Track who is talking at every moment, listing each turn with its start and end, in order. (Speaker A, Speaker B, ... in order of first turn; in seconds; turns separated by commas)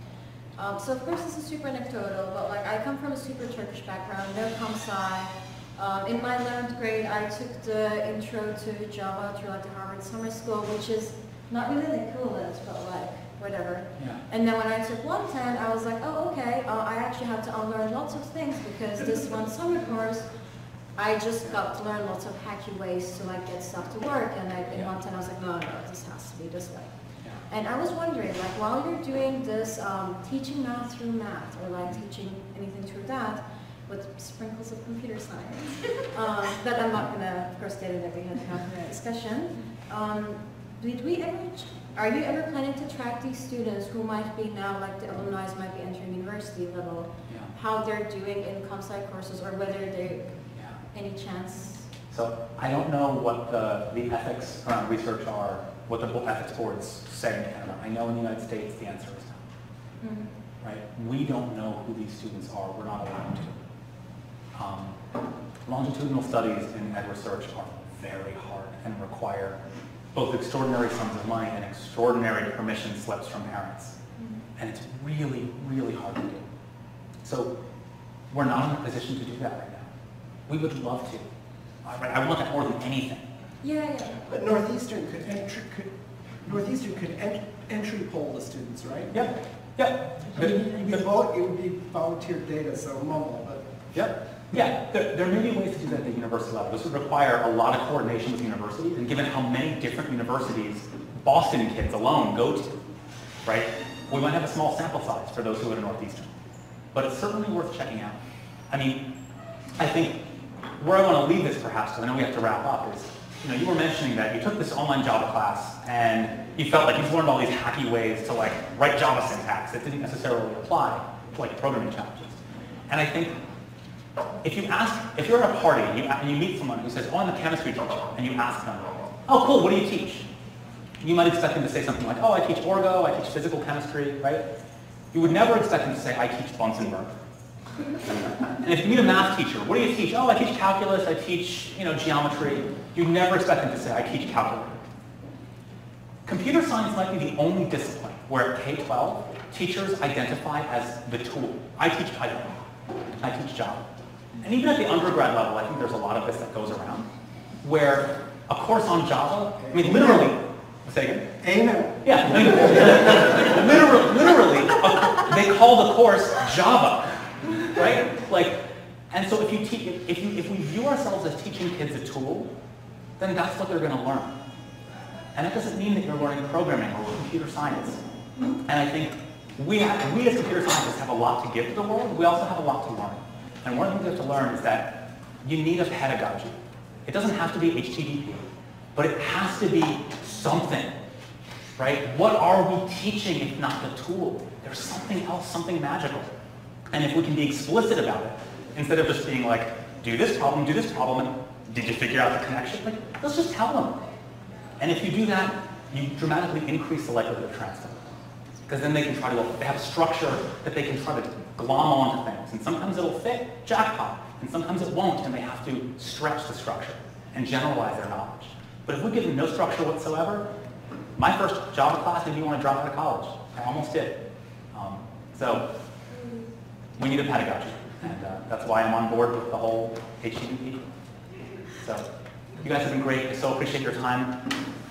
Speaker A: 0.6-20.3, Speaker B: 14.0-14.2, Speaker A: 20.9-26.9, Speaker A: 27.4-50.4, Speaker B: 50.5-50.8, Speaker A: 50.9-51.9, Speaker B: 52.1-59.4, Speaker A: 60.0-60.3, Speaker B: 60.6-63.5, Speaker B: 64.5-65.0, Speaker B: 65.7-69.6, Speaker B: 70.1-74.0, Speaker A: 74.2-74.4, Speaker B: 74.6-76.5, Speaker B: 77.2-77.5, Speaker B: 78.3-79.9, Speaker B: 80.5-81.3, Speaker B: 81.8-83.3, Speaker A: 83.6-84.4, Speaker C: 84.2-89.3, Speaker B: 89.1-91.1, Speaker C: 90.3-94.1, Speaker B: 93.9-102.8, Speaker B: 103.4-106.3, Speaker B: 106.9-108.2, Speaker B: 108.7-109.1, Speaker B: 109.8-110.2, Speaker B: 110.8-123.4, Speaker B: 124.4-130.3, Speaker B: 131.0-134.4, Speaker B: 135.1-137.1, Speaker B: 138.0-144.7, Speaker B: 146.2-152.6, Speaker B: 153.2-157.1, Speaker B: 157.6-161.3, Speaker C: 159.7-160.3, Speaker C: 161.4-163.6, Speaker B: 162.0-172.5, Speaker B: 173.2-174.4, Speaker B: 175.3-178.0, Speaker B: 178.7-190.9, Speaker B: 191.8-196.3, Speaker B: 196.9-204.0, Speaker B: 204.8-208.1, Speaker B: 208.7-220.5, Speaker B: 221.2-224.2, Speaker B: 224.7-225.7, Speaker B: 227.0-230.9, Speaker B: 231.8-232.1, Speaker B: 232.6-234.4